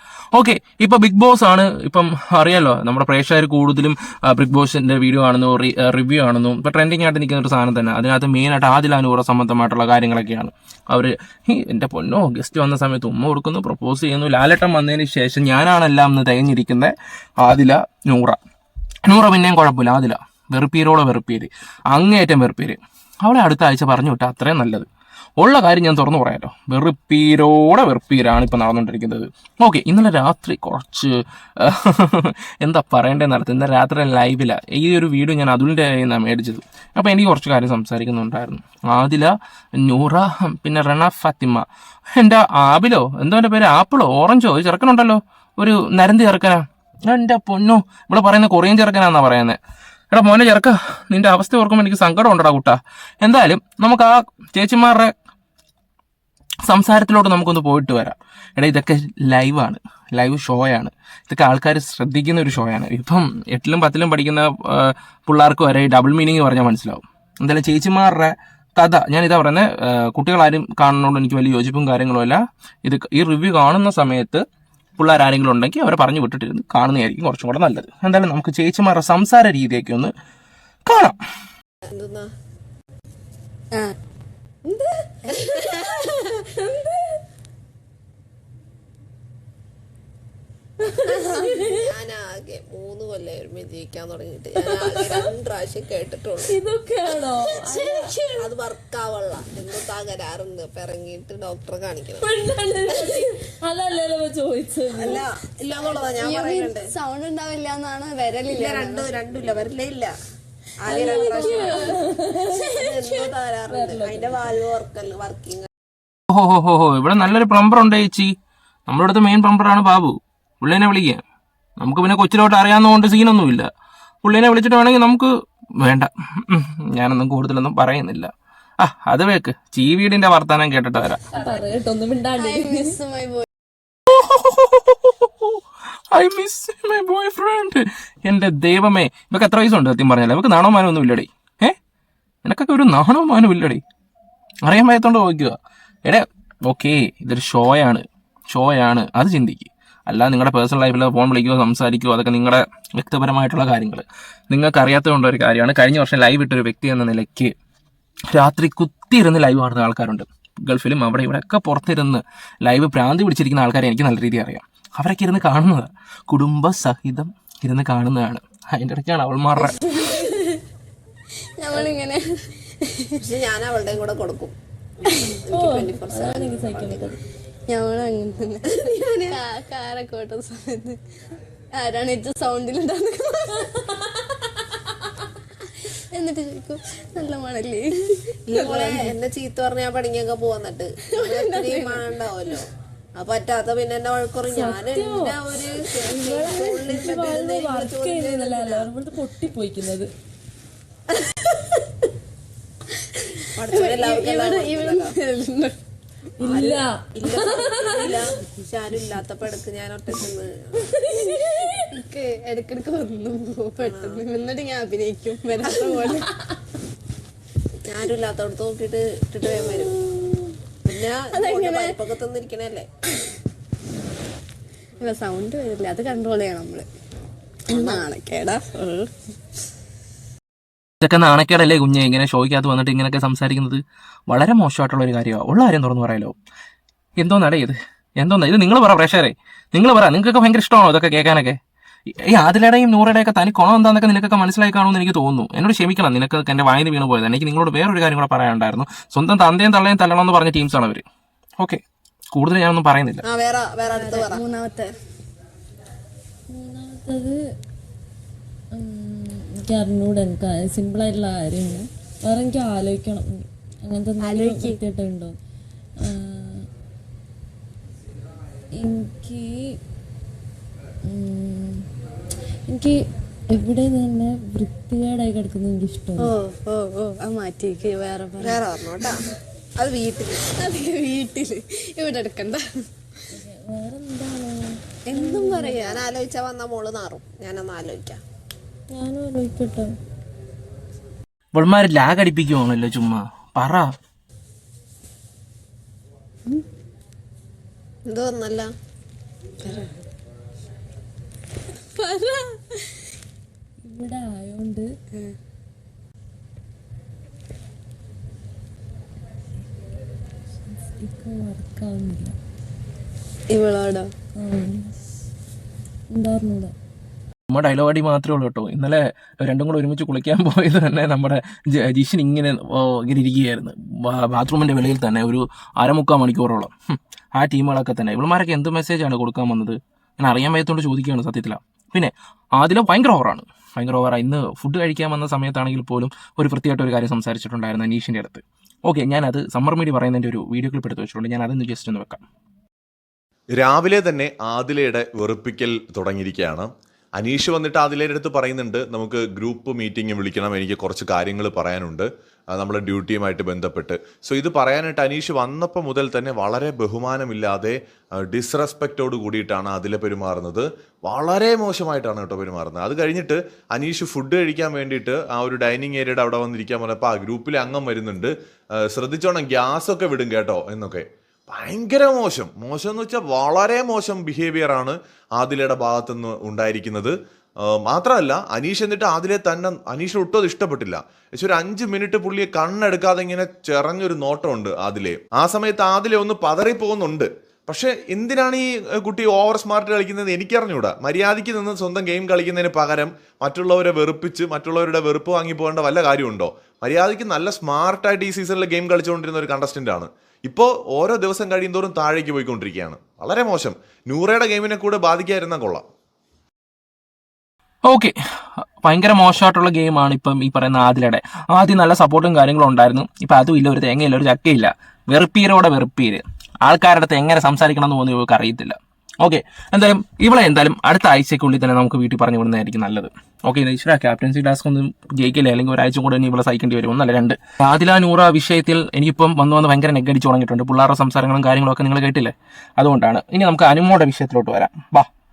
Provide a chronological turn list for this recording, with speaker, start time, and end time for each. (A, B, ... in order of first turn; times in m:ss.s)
0:00.3-0:18.4 A
0:19.0-0:24.9 A
0:25.4-0:41.6 A
0:42.2-0:49.6 A
0:50.1-0:55.1 A
0:56.6-1:14.4 A
1:15.0-1:20.1 A
1:20.8-1:21.2 A
1:21.9-1:22.3 B
1:24.6-1:26.4 B
1:30.9-1:36.5 B
1:31.1-1:31.5 C
1:34.9-1:35.2 C
1:36.4-1:38.5 C
1:37.7-1:42.3 B
1:42.2-1:45.3 C
1:42.9-1:43.2 B
1:44.9-1:46.9 B
1:46.0-1:49.1 D
1:48.5-1:50.1 B
1:50.8-1:55.7 B
1:50.9-1:54.6 C
1:51.4-1:51.7 D
1:56.3-1:58.3 A
1:58.9-2:01.2 A
2:01.8-2:03.7 A
2:04.2-2:11.2 A
2:11.3-2:13.0 C
2:12.3-2:13.4 D
2:14.1-2:15.6 A
2:16.1-2:21.8 A
2:22.4-2:23.8 A
2:24.6-2:37.5 A
2:38.3-2:49.8 A
2:51.6-2:52.3 D
2:53.2-2:54.5 B
2:55.4-2:57.2 B
2:55.5-2:57.2 C
2:57.7-3:01.0 D
2:58.6-2:59.4 B
3:01.7-3:03.7 D
3:06.1-3:09.1 D
3:08.5-3:18.9 B
3:11.1-3:12.0 D
3:14.5-3:15.5 C
3:16.0-3:20.1 C
3:23.6-3:25.1 B
3:23.7-3:25.8 D
3:26.4-3:30.9 B
3:26.4-3:28.2 C
3:31.2-3:31.5 C
3:31.9-3:36.2 D
3:33.7-3:34.2 B
3:35.6-3:36.1 B
3:37.8-3:40.0 B
3:40.8-3:42.9 B
3:41.3-3:42.0 D
3:45.0-3:46.9 D
3:47.7-3:49.1 D
3:47.7-3:48.0 B
3:51.0-3:56.3 A
3:57.2-4:01.6 A
4:02.3-4:11.0 A
4:11.6-4:13.2 A
4:13.2-4:14.4 B
4:13.9-4:14.9 D
4:16.5-4:17.4 C
4:18.7-4:25.4 C
4:24.3-4:24.5 B
4:26.0-4:26.6 C
4:28.8-4:29.5 C
4:31.1-4:31.8 C
4:32.7-4:32.9 C
4:33.5-4:36.3 C
4:36.3-4:38.7 D
4:38.4-4:40.5 B
4:40.6-4:42.6 D
4:43.3-4:45.8 C
4:45.1-4:46.0 D
4:45.1-4:48.2 B
4:48.9-4:49.9 C
4:51.5-4:53.8 A
4:58.0-4:58.7 B
4:59.6-4:59.9 B
5:03.8-5:04.9 C
5:10.7-5:12.4 C
5:13.5-5:14.1 B
5:14.3-5:14.9 C
5:16.1-5:16.7 C
5:17.5-5:42.2 A
5:43.6-6:08.3 E
6:08.9-6:17.1 E
6:17.8-6:45.8 E
6:47.8-6:48.1 A
6:48.8-7:15.1 A